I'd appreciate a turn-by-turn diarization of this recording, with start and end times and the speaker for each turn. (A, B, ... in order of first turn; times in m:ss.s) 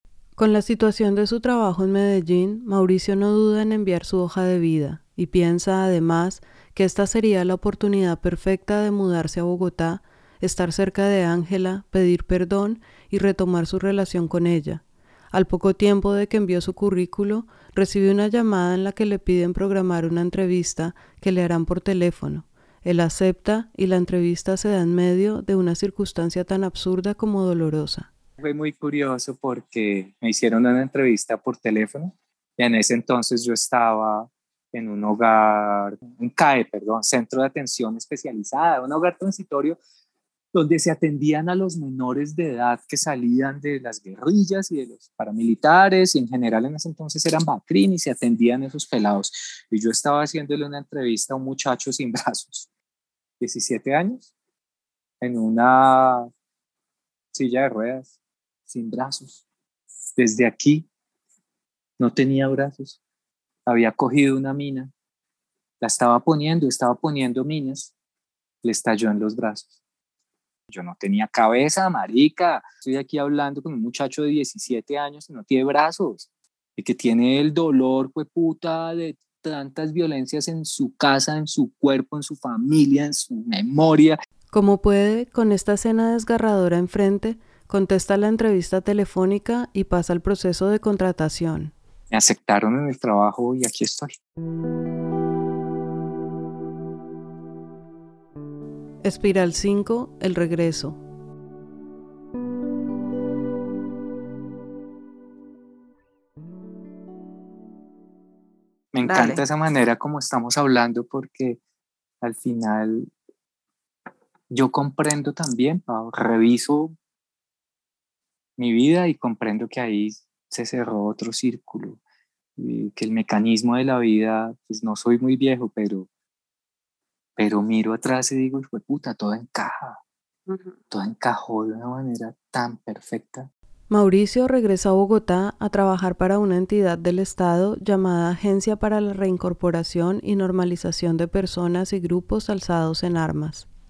0:00.4-0:28.1 A
0:28.4-0:39.8 B
0:40.5-0:52.7 B
0:53.4-0:54.3 B
0:55.2-0:56.3 B
0:57.3-0:58.1 B
0:58.7-0:59.4 B
1:00.2-1:00.9 B
1:02.0-1:03.0 B
1:03.6-1:04.9 B
1:05.8-1:07.9 B
1:08.6-1:09.7 B
1:10.7-1:24.2 B
1:24.5-1:31.7 A
1:32.1-1:34.2 B
1:39.0-1:41.0 A
1:48.9-1:51.6 B
1:49.1-1:49.4 A
1:52.2-1:53.1 B
1:54.5-1:56.9 B
1:58.6-2:02.0 B
2:02.6-2:06.1 B
2:07.4-2:10.0 B
2:10.9-2:13.5 B
2:13.9-2:23.7 A